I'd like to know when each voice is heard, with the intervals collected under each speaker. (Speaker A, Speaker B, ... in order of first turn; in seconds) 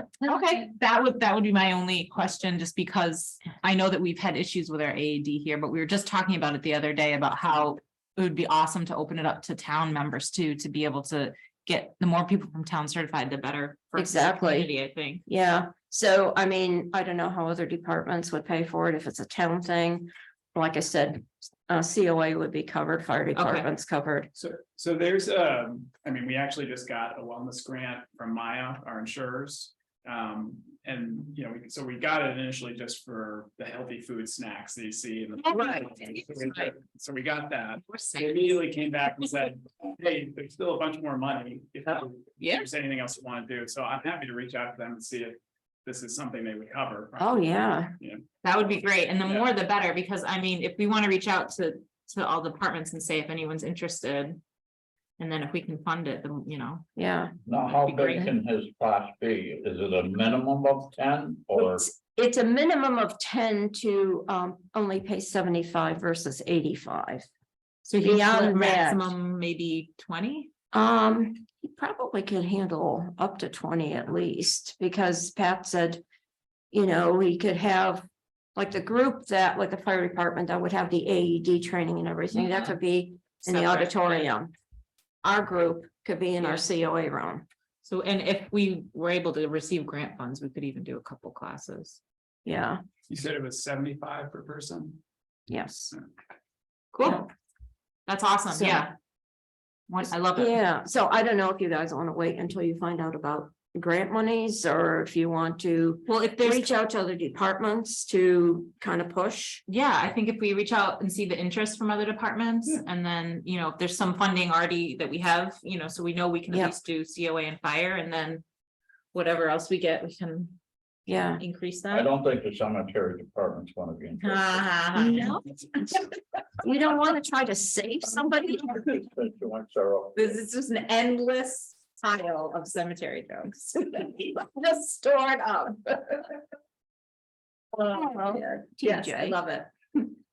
Speaker A: 0.2-15.2, 23.3-23.7, 35.4-36.7, 37.9-38.6, 42.4-42.7, 48.4-54.4, 55.2-56.9, 57.7-58.4, 67.8-70.5, 83.5-84.3, 86.4-86.7, 87.8-92.0, 96.9-97.3, 98.1-98.9, 99.9-100.6, 106.1-106.7, 109.7-118.5, 119.1-120.6, 121.1-122.1, 124.2-125.4, 130.2-136.3, 137.7-139.7
Speaker B: 13.9-14.7, 15.3-24.3, 47.2-48.0, 57.0-57.3, 61.6-67.3, 68.0-69.1, 70.7-76.0, 76.7-84.5, 85.2-87.5, 92.5-92.8, 95.5-95.9, 98.5-98.9, 100.0-109.6, 121.1-121.4, 125.0-126.0, 126.6-128.8, 137.9-139.4
Speaker C: 24.4-48.2, 93.1-95.0
Speaker D: 57.5-61.9, 121.9-124.7, 128.5-130.4